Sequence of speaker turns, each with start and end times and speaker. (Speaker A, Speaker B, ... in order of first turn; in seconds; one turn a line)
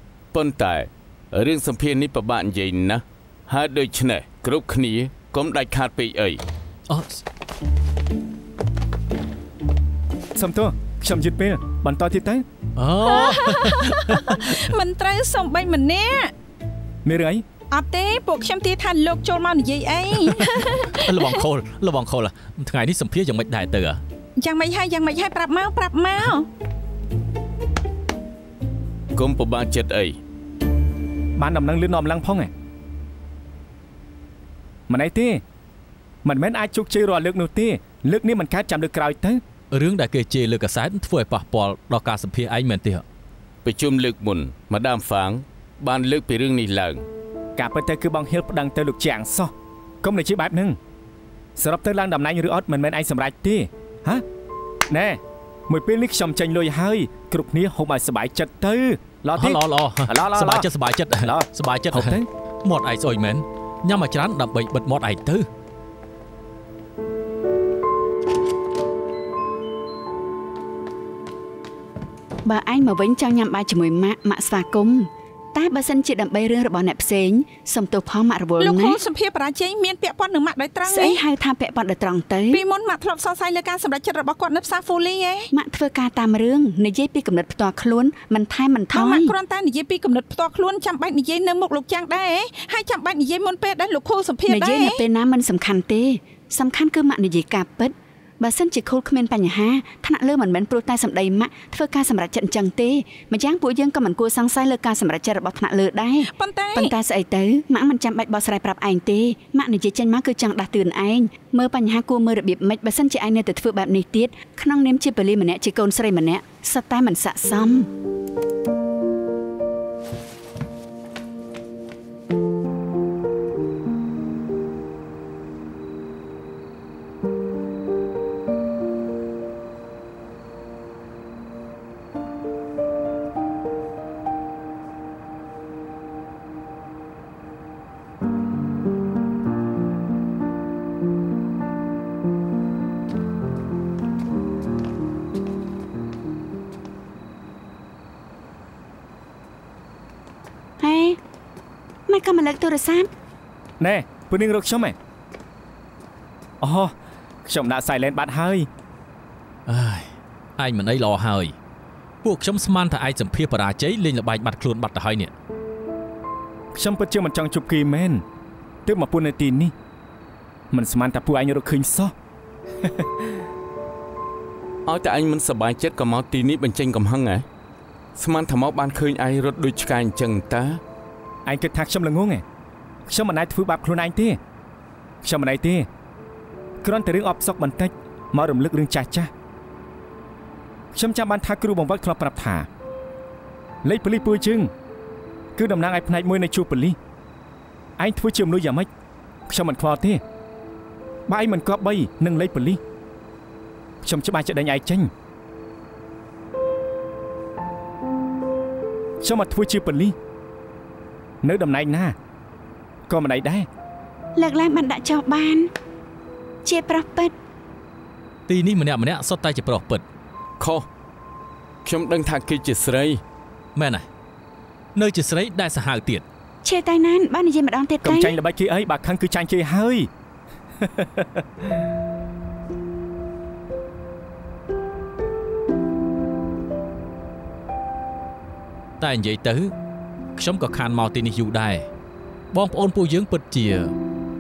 Speaker A: 0.3-6.4
Speaker B: 6.9-7.2
Speaker C: 10.4-12.4
Speaker B: 12.8-14.6
Speaker D: 13.0-16.3
Speaker C: 17.1-17.4
Speaker D: 17.7-21.4
Speaker B: 20.2-24.0
Speaker D: 24.4-26.5
Speaker A: 29.1-30.2
Speaker C: 31.4-32.5
Speaker C: 34.9-35.4
Speaker C: 36.2-39.4
Speaker B: 39.7-43.0
Speaker A: 43.6-47.0
Speaker C: 47.6-49.5
Speaker C: 50.0-50.8
Speaker C: 51.6-54.2
Speaker C: 54.9-62.3
Speaker B: 59.4-65.5
Speaker E: 72.5-79.0
Speaker D: 78.6-81.2
Speaker E: 80.8-82.6
Speaker D: 82.5-85.5
Speaker E: 85.5-89.3
Speaker D: 88.9-95.0
Speaker E: 94.5-117.9
Speaker D: 106.3-106.9
Speaker E: 150.8-151.2
Speaker E: 152.1-153.1
Speaker C: 153.8-155.0
Speaker C: 156.6-156.9
Speaker C: 157.4-158.7
Speaker B: 159.7-161.6
Speaker B: 162.2-165.3
Speaker C: 166.7-168.2
Speaker C: 168.9-169.7
Speaker C: 170.7-172.1
Speaker C: 172.8-173.1
Speaker A: 174.9-177.4
Speaker A: 178.2-180.8
Speaker C: 181.5-182.4
Speaker C: 183.1-184.4
Speaker C: 185.2-185.9
Speaker C: 186.8-189.3
Speaker C: 190.9-192.7
Speaker C: 193.8-194.7
Speaker C: 195.6-197.0
Speaker C: 198.0-198.9
Speaker C: 199.5-200.2
Speaker C: 201.3-202.8
Speaker C: 204.0-205.1
Speaker C: 209.2-210.2
Speaker C: 211.4-212.2
Speaker C: 213.1-213.7
Speaker E: 214.4-215.7
Speaker E: 216.7-217.3
Speaker B: 218.5-220.0
Speaker A: 220.6-220.9
Speaker A: 221.8-223.2
Speaker B: 223.8-224.1
Speaker B: 224.9-226.2
Speaker E: 226.6-228.4
Speaker C: 228.0-230.1
Speaker C: 230.8-231.7
Speaker B: 239.0-239.7
Speaker B: 240.4-241.9
Speaker B: 242.5-243.9